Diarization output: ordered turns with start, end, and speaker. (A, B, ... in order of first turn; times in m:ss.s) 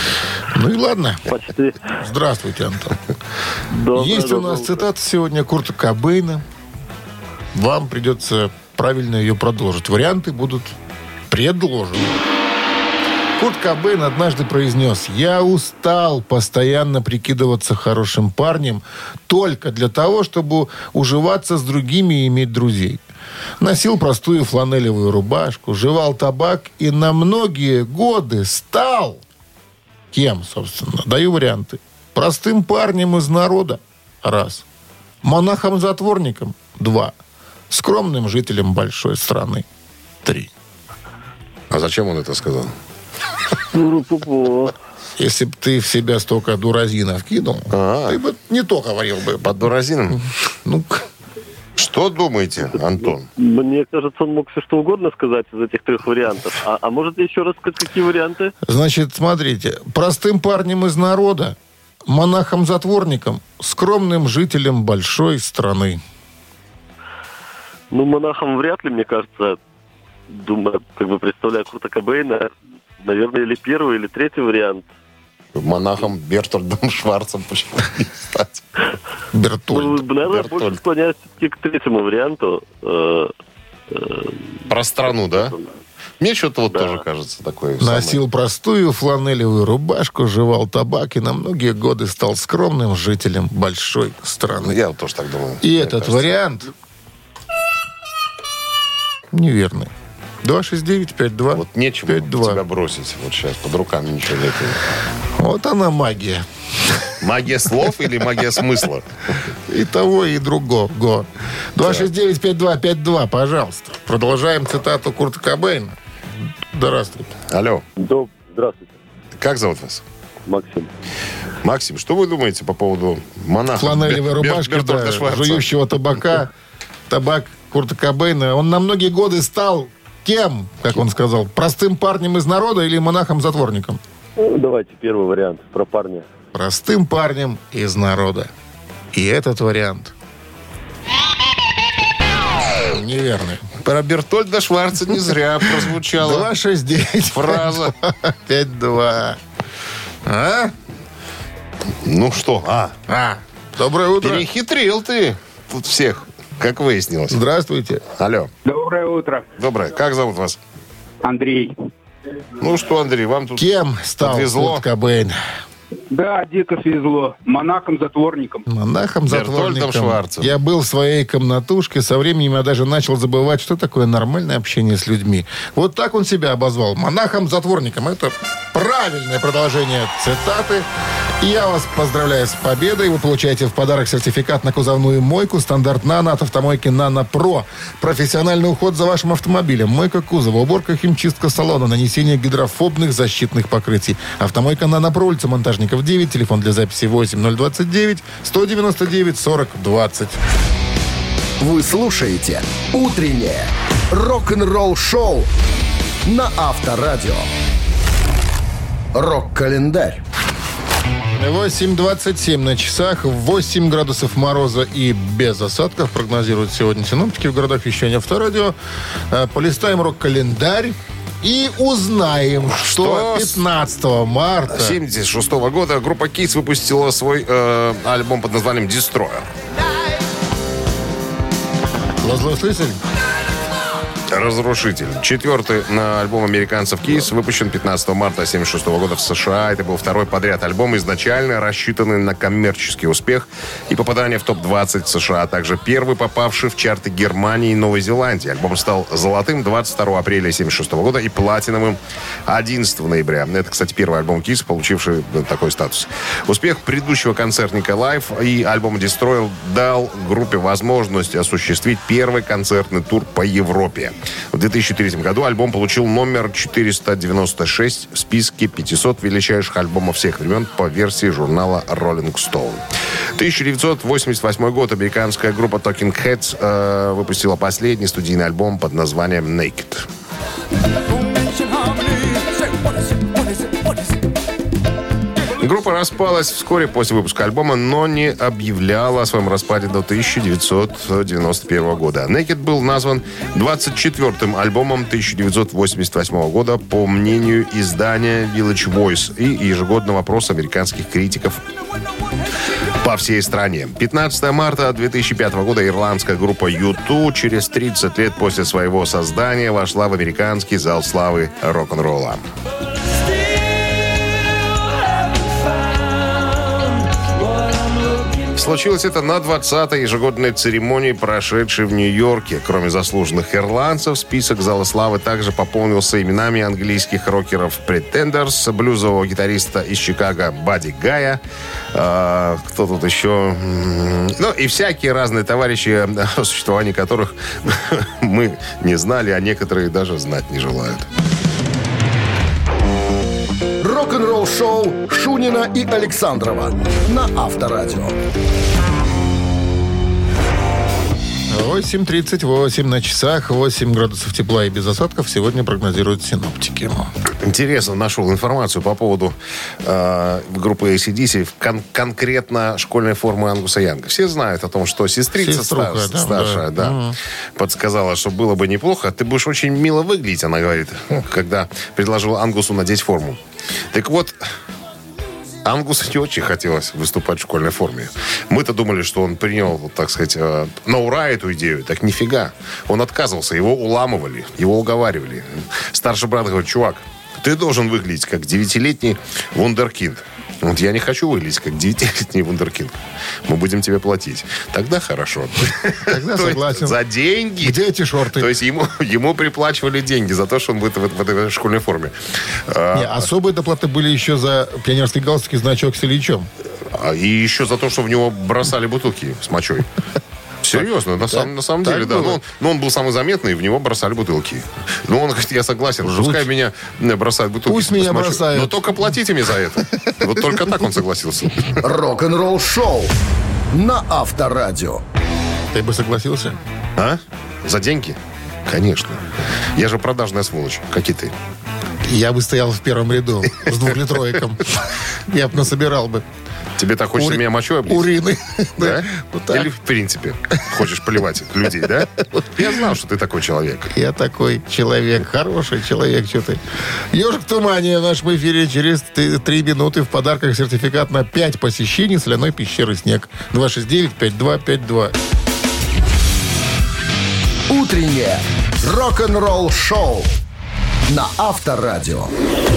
0:00.5-0:01.3 A
0:01.3-0:01.8 B
0:02.0-0:03.0 A
0:03.7-0:04.8 B
0:03.9-0:06.4 A
0:07.5-0:10.8 A
0:11.3-0:12.2 A
0:13.4-0:23.0 A
0:23.6-0:29.2 A
0:30.1-0:34.6 A
0:35.2-0:37.2 A
0:37.7-0:39.7 A
0:40.2-0:40.5 A
0:41.7-0:42.7 C
0:43.7-0:44.8 B
0:45.2-0:51.1 A
0:47.7-0:48.2 C
0:49.4-0:50.2 C
0:51.8-0:53.3 C
0:53.4-0:58.5 B
0:58.6-1:01.6 A
1:02.1-1:06.0 A
1:07.9-1:09.6 B
1:10.3-1:14.9 B
1:15.6-1:18.6 C
1:19.3-1:20.0 A
1:19.7-1:23.3 B
1:20.3-1:20.8 C
1:23.9-1:24.4 B
1:24.7-1:25.6 C
1:25.3-1:25.7 B
1:26.2-1:28.2 C
1:27.8-1:34.8 A
1:34.6-1:36.3 C
1:35.6-1:36.7 A
1:39.3-1:39.9 A
1:40.4-1:42.6 A
1:41.5-1:44.8 C
1:45.4-1:47.0 A
1:47.2-1:49.0 C
1:49.7-1:56.0 A
1:51.8-1:52.1 C
1:56.7-1:57.3 A
1:57.5-1:57.8 C
1:58.0-1:58.9 B
1:59.4-2:00.0 C
2:00.5-2:00.9 B
2:01.6-2:05.7 C
2:03.8-2:06.5 A
2:07.1-2:14.0 A
2:14.4-2:16.2 B
2:16.5-2:18.5 A
2:19.1-2:20.1 A
2:22.8-2:23.6 A
2:23.8-2:26.5 C
2:26.1-2:29.4 A
2:27.3-2:27.9 C
2:30.2-2:30.7 A
2:32.0-2:32.9 C
2:33.1-2:34.5 A
2:34.2-2:37.4 C
2:37.3-2:38.0 A
2:38.2-2:38.5 C
2:38.7-2:39.5 D
2:39.6-2:40.6 C
2:41.2-2:41.7 D
2:42.6-2:43.7 C
2:43.6-2:45.4 A
2:44.2-2:44.8 C
2:46.1-2:48.6 D
2:48.7-3:00.9 A
2:49.3-2:50.6 C
3:01.4-3:20.4 A
3:21.6-3:25.5 E
3:26.2-3:27.5 E
3:29.1-3:30.2 E
3:31.4-3:38.8 A
3:39.3-3:45.0 A
3:42.7-3:43.6 C
3:44.7-3:49.5 C
3:52.2-3:53.0 A
3:54.3-4:32.8 C
4:33.4-4:40.1 C
4:45.6-5:01.6 C
5:03.0-5:12.4 C
5:18.6-5:31.4 C
5:31.9-5:41.1 C
5:43.8-5:48.2 E
5:51.5-5:57.1 A
5:57.4-6:07.0 C
6:05.4-6:07.2 A
6:07.6-6:13.4 C
6:13.9-6:14.4 C
6:15.6-6:37.8 C
6:36.0-6:37.0 A
6:37.6-6:38.5 A
6:38.3-6:43.3 C
6:42.9-6:46.5 A
6:46.9-6:49.9 C
6:50.6-7:01.8 C
6:50.8-6:52.4 A
6:56.0-6:56.5 A
6:57.7-6:59.0 A
7:01.8-7:03.1 E
7:03.7-7:05.0 E
7:05.7-7:06.6 A
7:07.0-7:11.4 C
7:12.0-7:16.2 A
7:16.8-7:18.1 C
7:17.2-7:19.7 A
7:18.8-7:23.9 C
7:22.3-7:22.7 A
7:23.9-7:26.6 A
7:27.1-7:35.2 A
7:37.7-7:40.4 E
7:41.1-7:42.3 E